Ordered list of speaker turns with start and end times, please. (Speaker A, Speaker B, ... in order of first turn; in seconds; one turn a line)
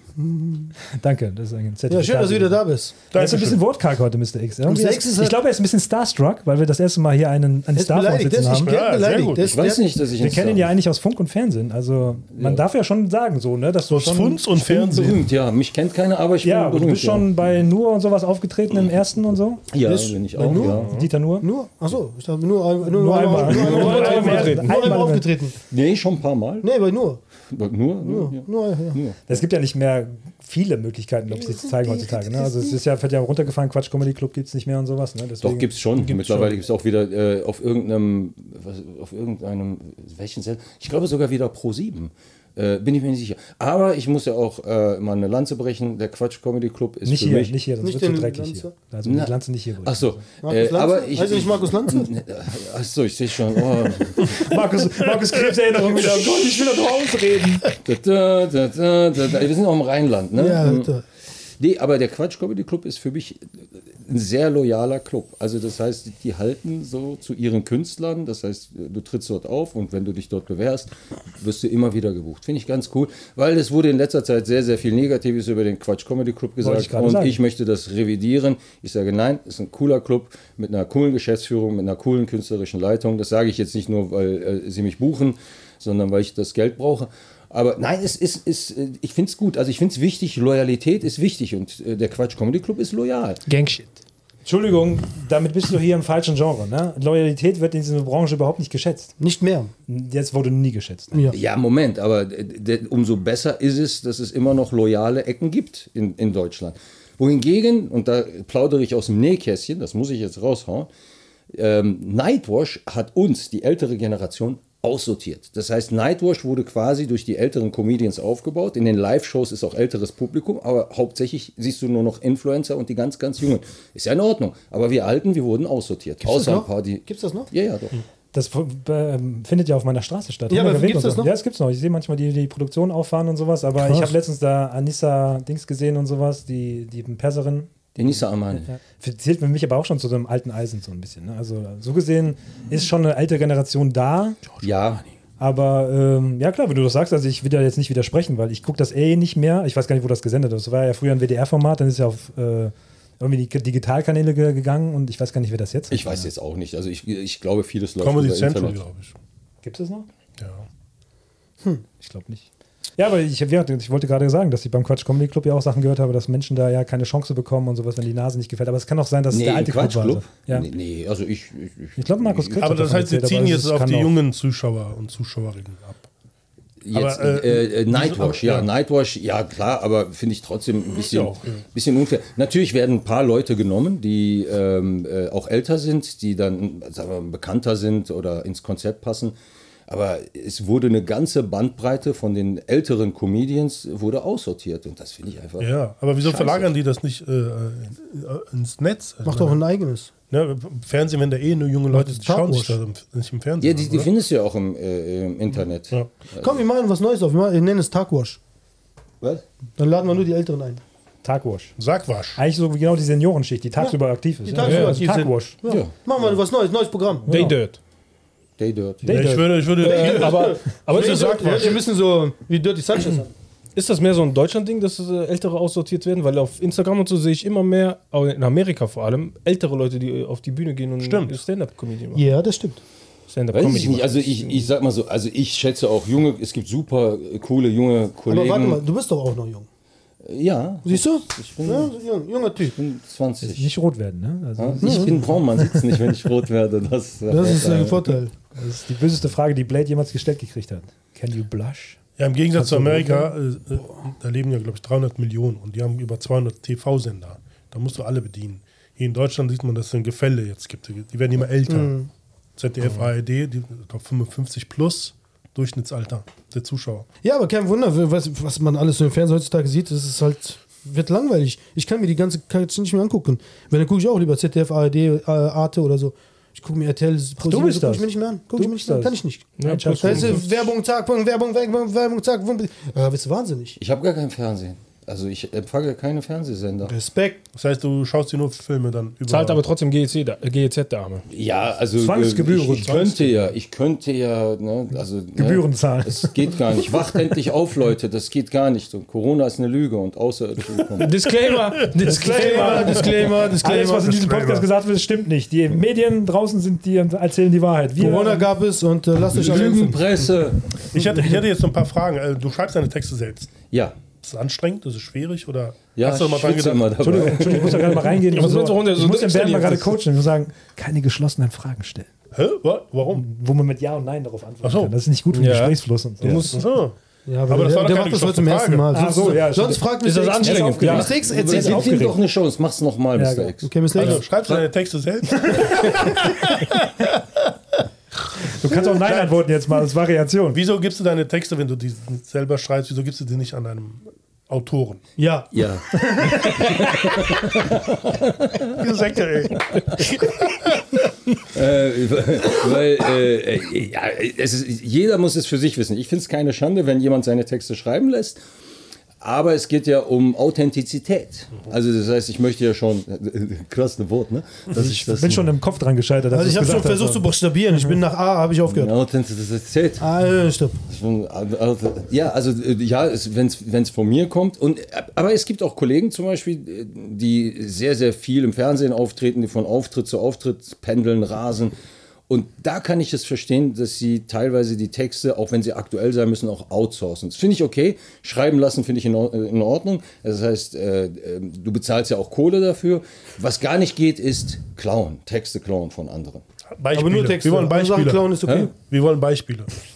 Speaker A: 0.2-0.7
Speaker B: 0.9-8.8
Speaker A: 1.9-3.0
Speaker C: 3.1-3.6
Speaker A: 4.7-5.4
Speaker A: 7.8-9.8
Speaker C: 8.6-9.6
Speaker D: 9.4-10.7
Speaker B: 10.2-14.8
Speaker D: 12.3-12.6
Speaker C: 13.9-15.2
Speaker D: 14.7-17.3
Speaker B: 16.4-19.7
Speaker D: 19.7-20.9
Speaker A: 19.8-25.6
Speaker B: 20.4-21.5
Speaker B: 22.8-25.3
Speaker E: 23.4-25.1
Speaker D: 25.7-26.7
Speaker A: 26.6-27.2
Speaker D: 27.5-29.4
Speaker A: 28.0-29.0
Speaker B: 29.3-35.8
Speaker A: 31.4-32.8
Speaker D: 35.4-47.5
Speaker B: 47.0-50.2
Speaker A: 47.8-48.7
Speaker D: 49.0-49.3
Speaker D: 49.8-54.4
Speaker A: 50.4-52.1
Speaker B: 54.2-57.7
Speaker C: 56.0-56.4
Speaker D: 57.8-60.9
Speaker A: 60.4-61.0
Speaker D: 61.6-93.4
Speaker B: 76.6-77.4
Speaker E: 93.5-94.0
Speaker B: 94.5-99.1
Speaker A: 99.2-99.7
Speaker B: 99.9-101.3
Speaker D: 101.3-110.9
Speaker D: 111.5-128.0
Speaker A: 126.2-127.5
Speaker B: 128.3-137.7
Speaker A: 130.5-131.3
Speaker A: 133.8-134.1
Speaker D: 137.9-138.7
Speaker B: 138.7-144.4
Speaker D: 144.6-145.1
Speaker B: 145.4-156.3
Speaker D: 155.9-158.8
Speaker C: 158.0-159.2
Speaker B: 159.6-160.1
Speaker C: 160.4-160.7
Speaker B: 162.0-162.5
Speaker B: 163.0-170.7
Speaker D: 169.3-172.8
Speaker B: 172.0-174.2
Speaker C: 172.6-176.1
Speaker D: 176.8-189.3
Speaker C: 176.9-178.7
Speaker C: 181.0-181.6
Speaker D: 189.9-196.7
Speaker C: 195.6-199.6
Speaker A: 199.2-200.1
Speaker C: 200.3-204.1
Speaker A: 201.9-202.8
Speaker D: 203.6-206.6
Speaker A: 206.4-208.4
Speaker A: 209.8-210.8
Speaker B: 211.2-211.8
Speaker C: 211.8-212.4
Speaker B: 212.4-215.6
Speaker A: 214.5-217.3
Speaker E: 214.6-215.0
Speaker D: 215.6-215.9
Speaker B: 217.3-217.6
Speaker E: 217.3-217.8
Speaker D: 218.6-219.2
Speaker B: 219.1-219.8
Speaker C: 219.1-221.9
Speaker E: 219.8-221.8
Speaker A: 219.8-223.3
Speaker E: 223.8-232.3
Speaker C: 231.0-231.4
Speaker A: 232.1-232.8
Speaker E: 233.3-234.7
Speaker D: 233.5-238.8
Speaker A: 238.3-239.7
Speaker D: 240.2-241.9
Speaker A: 240.8-242.8
Speaker D: 242.6-243.7
Speaker B: 243.4-245.8
Speaker D: 244.6-248.2
Speaker A: 244.8-245.2
Speaker A: 247.3-248.3
Speaker B: 248.5-252.0
Speaker C: 252.2-262.0
Speaker B: 252.5-253.3
Speaker A: 261.7-262.1
Speaker C: 262.6-267.1
Speaker A: 267.2-283.8
Speaker B: 277.4-280.5
Speaker E: 279.6-280.5
Speaker D: 283.8-286.9
Speaker A: 286.9-287.4
Speaker C: 287.5-289.6
Speaker E: 289.3-291.3
Speaker D: 291.3-301.1
Speaker B: 292.0-293.2
Speaker B: 295.4-296.5
Speaker E: 301.0-303.1
Speaker B: 302.0-303.1
Speaker A: 302.1-304.6
Speaker C: 303.2-303.6
Speaker B: 303.6-308.5
Speaker A: 308.0-310.0
Speaker D: 309.3-310.9
Speaker C: 310.9-313.6
Speaker D: 313.7-314.0
Speaker C: 314.2-317.5
Speaker D: 316.0-318.0
Speaker B: 317.0-322.1
Speaker E: 318.2-320.0
Speaker C: 322.3-323.2
Speaker B: 323.1-326.6
Speaker C: 324.6-324.9
Speaker E: 325.3-326.6
Speaker C: 326.2-327.0
Speaker A: 327.3-332.0
Speaker C: 327.5-329.3
Speaker B: 328.9-332.2
Speaker E: 330.3-331.1
Speaker D: 330.6-334.7
Speaker B: 333.2-333.5
Speaker A: 333.6-334.3
Speaker C: 333.9-336.4
Speaker B: 335.4-336.5
Speaker B: 338.4-340.6
Speaker C: 339.0-339.4
Speaker C: 340.5-345.1
Speaker A: 345.2-345.5
Speaker D: 345.5-349.0
Speaker B: 346.1-346.6
Speaker C: 348.7-350.8
Speaker D: 351.5-358.4
Speaker D: 359.2-365.5
Speaker B: 364.7-368.0
Speaker A: 366.3-368.9
Speaker D: 368.7-370.1
Speaker A: 370.0-370.8
Speaker D: 370.9-381.8
Speaker D: 382.3-396.4
Speaker C: 396.8-399.7
Speaker A: 396.9-398.7
Speaker D: 398.5-398.7